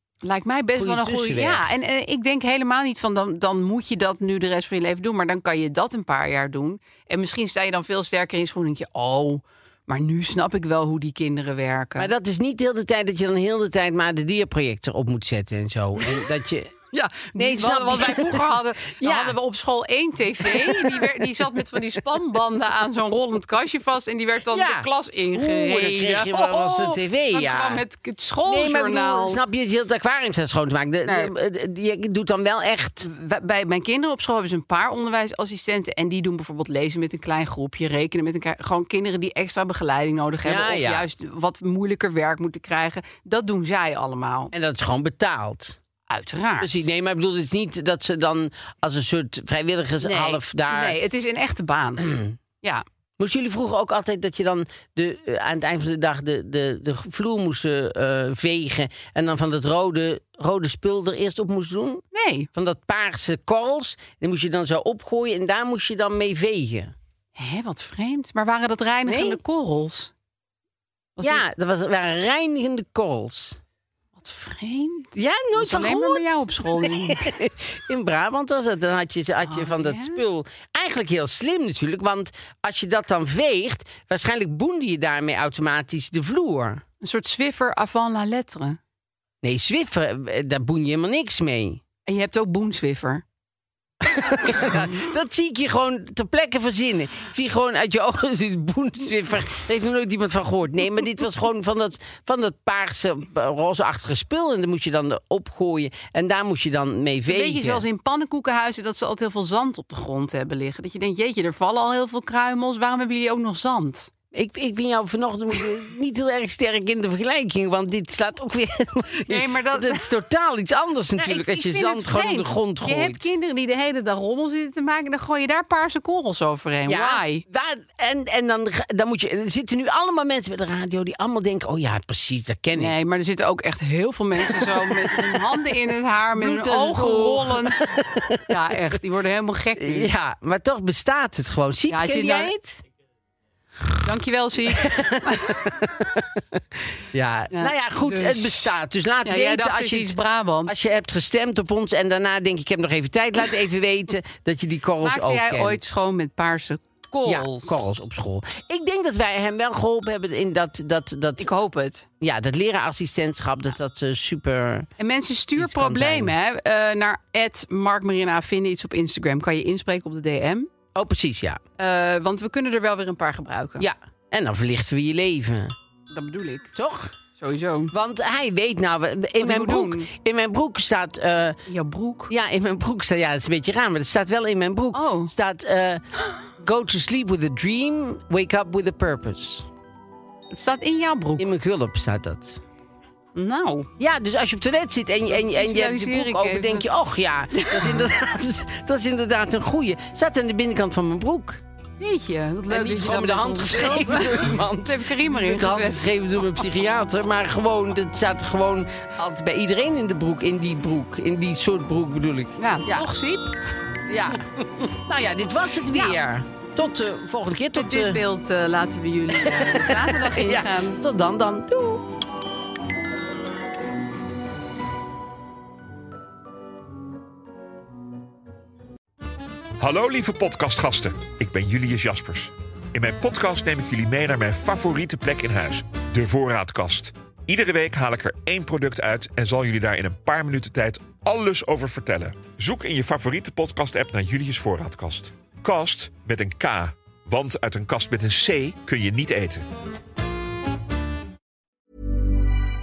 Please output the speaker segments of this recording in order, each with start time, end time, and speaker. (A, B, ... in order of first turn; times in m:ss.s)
0:00.2-0:12.1 A
0:00.8-0:01.6 B
0:12.0-0:16.8 B
0:16.9-0:29.4 A
0:17.4-0:19.4 B
0:20.4-0:21.3 B
0:24.5-0:27.8 B
0:28.4-0:33.1 B
0:31.1-0:31.3 A
0:33.0-0:44.5 A
0:40.4-0:41.0 B
0:44.5-0:45.8 B
0:46.1-0:46.8 A
0:46.6-0:51.0 B
0:50.0-0:52.8 A
0:52.0-0:52.4 B
0:53.2-1:06.9 B
1:02.1-1:02.5 A
1:07.4-1:10.1 A
1:09.1-1:09.4 B
1:11.2-1:11.4 A
1:11.2-1:13.6 B
1:14.2-1:17.3 A
1:15.2-1:26.8 B
1:19.4-1:20.2 A
1:27.0-1:28.8 A
1:29.4-1:31.8 B
1:32.1-1:33.2 A
1:34.0-1:47.8 B
1:34.4-1:35.1 A
1:47.3-1:54.1 A
1:54.3-2:03.3 B
1:59.1-2:00.1 A
2:01.2-2:07.4 A
2:06.9-2:13.0 B
2:12.8-2:17.9 A
2:14.4-2:15.7 B
2:16.3-2:18.6 B
2:18.5-2:20.1 A
2:19.8-2:22.8 B
2:21.9-2:22.6 A
2:24.0-2:25.7 A
2:24.7-2:26.4 B
2:27.1-2:35.8 B
2:27.5-2:30.8 A
2:35.0-2:37.8 A
2:37.2-2:41.5 B
2:41.4-2:42.1 A
2:42.2-2:44.9 B
2:45.0-2:50.7 A
2:45.6-2:46.4 B
2:51.0-2:51.6 B
2:51.8-2:53.9 A
2:53.8-2:55.8 B
2:56.1-2:56.7 A
2:56.8-2:57.1 B
2:57.4-2:57.9 A
2:57.9-3:01.6 B
2:59.4-3:00.1 A
3:01.7-3:02.3 A
3:02.3-3:09.7 B
3:04.9-3:05.3 A
3:10.5-3:11.4 A
3:11.4-3:12.6 B
3:13.4-3:13.9 A
3:14.0-3:21.6 B
3:15.3-3:16.9 A
3:17.5-3:18.1 A
3:22.0-3:26.1 A
3:22.7-3:33.1 B
3:32.6-3:33.6 A
3:34.1-3:38.2 B
3:35.9-3:36.2 A
3:37.7-3:41.0 A
3:39.3-3:42.1 B
3:49.8-4:09.6 C